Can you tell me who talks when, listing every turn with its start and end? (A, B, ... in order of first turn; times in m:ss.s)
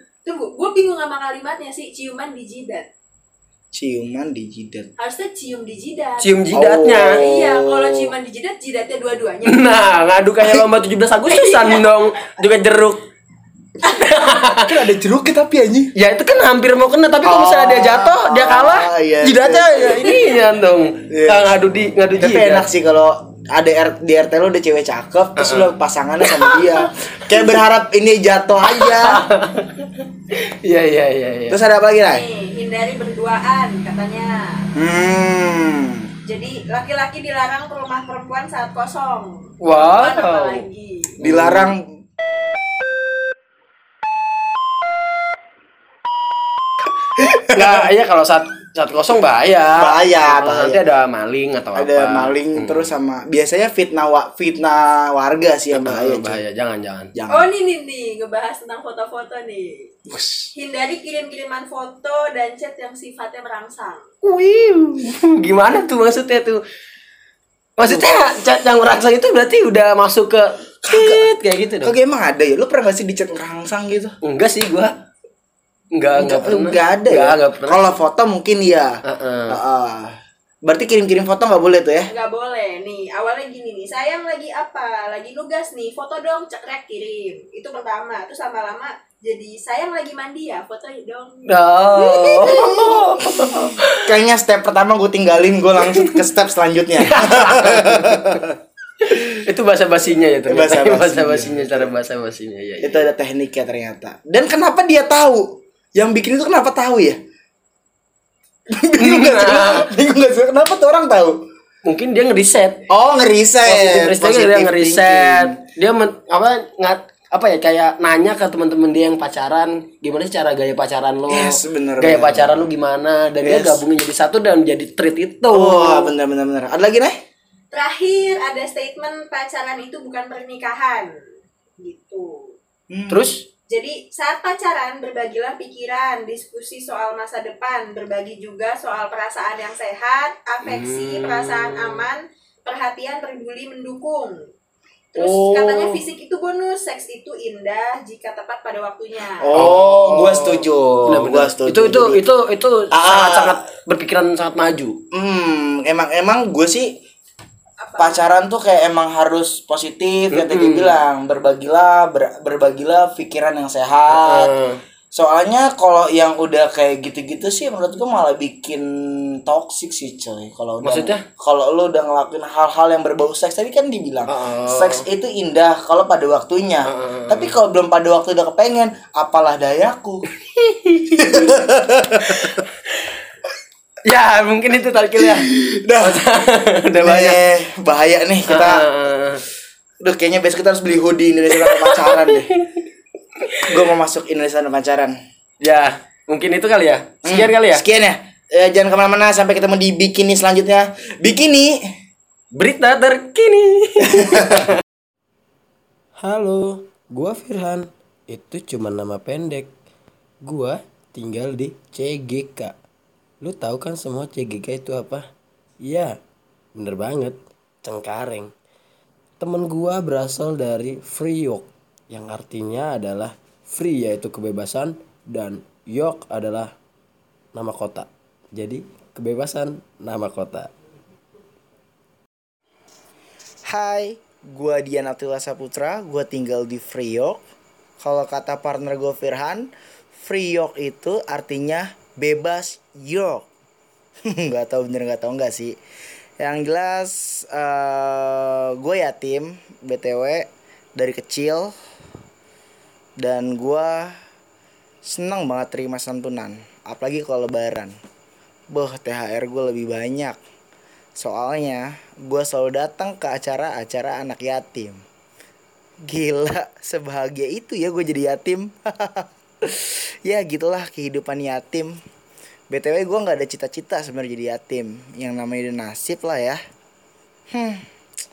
0:00.2-0:02.9 A
0:03.7-0:04.9 B
0:05.0-0:06.4 A
0:06.2-0:07.2 C
0:06.5-0:08.1 B
0:07.0-0:09.7 A
0:09.4-0:13.0 C
0:11.3-0:11.8 A
0:13.8-0:14.7 C
0:14.7-0:15.9 B
0:16.0-0:22.6 C
0:17.2-0:20.2 B
0:21.1-0:21.6 B
0:22.2-0:29.2 B
0:25.4-0:27.6 C
0:28.7-0:31.6 C
0:31.5-0:32.2 B
0:32.1-0:34.6 A
0:34.7-0:36.1 B
0:36.2-0:41.2 A
0:39.6-0:40.6 C
0:41.2-0:41.7 C
0:41.2-0:41.8 B
0:47.2-0:47.8 B
0:47.4-0:52.9 C
0:49.8-0:50.8 B
0:51.7-0:56.4 B
0:55.7-0:57.1 C
0:57.1-0:57.5 B
0:57.3-0:59.9 A
1:00.1-1:00.5 C
1:00.5-1:04.1 A
1:04.2-1:06.6 C
1:07.8-1:11.9 C
1:10.8-1:11.3 B
1:11.8-1:14.1 B
1:14.2-1:14.9 C
1:15.9-1:17.9 C
1:16.1-1:19.0 B
1:19.1-1:19.6 C
1:19.5-1:22.1 B
1:22.1-1:33.7 A
1:31.4-1:34.1 C
1:32.4-1:38.6 B
1:35.8-1:36.2 C
1:37.0-1:38.4 C
1:39.0-1:43.1 C
1:40.4-1:41.9 B
1:42.8-1:47.2 B
1:48.7-1:51.4 B
1:49.0-1:49.9 C
1:51.8-1:52.8 C
1:52.9-1:55.6 B
1:53.6-2:06.1 C
2:01.3-2:02.7 B
2:03.4-2:03.8 B
2:05.5-2:07.2 B
2:07.7-2:11.1 A
2:11.8-2:12.5 A
2:12.9-2:13.3 B
2:13.1-2:13.4 C
2:13.7-2:24.4 A
2:20.6-2:22.0 C
2:25.1-2:29.5 A
2:25.2-2:26.0 B
2:29.4-2:32.2 B
2:29.5-2:35.0 C
2:32.9-2:33.6 B
2:35.1-2:37.0 B
2:37.8-2:38.2 A
2:38.0-2:44.5 B
2:40.3-2:41.0 C
2:44.1-2:44.8 C
2:45.1-3:00.2 B
2:50.8-2:51.2 C
2:54.3-2:55.0 C
2:56.9-2:57.5 C
3:00.4-3:01.5 C
3:01.1-3:02.6 B
3:02.2-3:02.7 C
3:04.0-3:07.4 C
3:05.2-3:06.3 B
3:07.0-3:08.8 B
3:08.5-3:09.4 C
3:10.0-3:12.5 B
3:11.6-3:12.8 C
3:13.4-3:13.8 C
3:13.6-3:15.2 B
3:15.6-3:17.8 C
3:17.2-3:21.8 B
3:22.5-3:24.8 C
3:24.1-3:24.6 B
3:26.2-3:29.7 C
3:30.4-3:32.7 C
3:33.4-3:35.2 C
3:35.8-3:36.2 C
3:36.8-3:38.5 C
3:39.4-3:46.7 C
3:47.5-3:50.7 C
3:53.7-3:57.4 B
3:58.0-4:03.5 B
4:04.3-4:05.8 B
4:06.4-4:11.7 B
4:13.2-4:14.1 B
4:15.0-4:17.9 B
4:18.7-4:20.4 B
4:21.2-4:25.0 B
4:26.0-4:32.0 B
4:32.7-4:36.6 B
4:37.5-4:37.8 B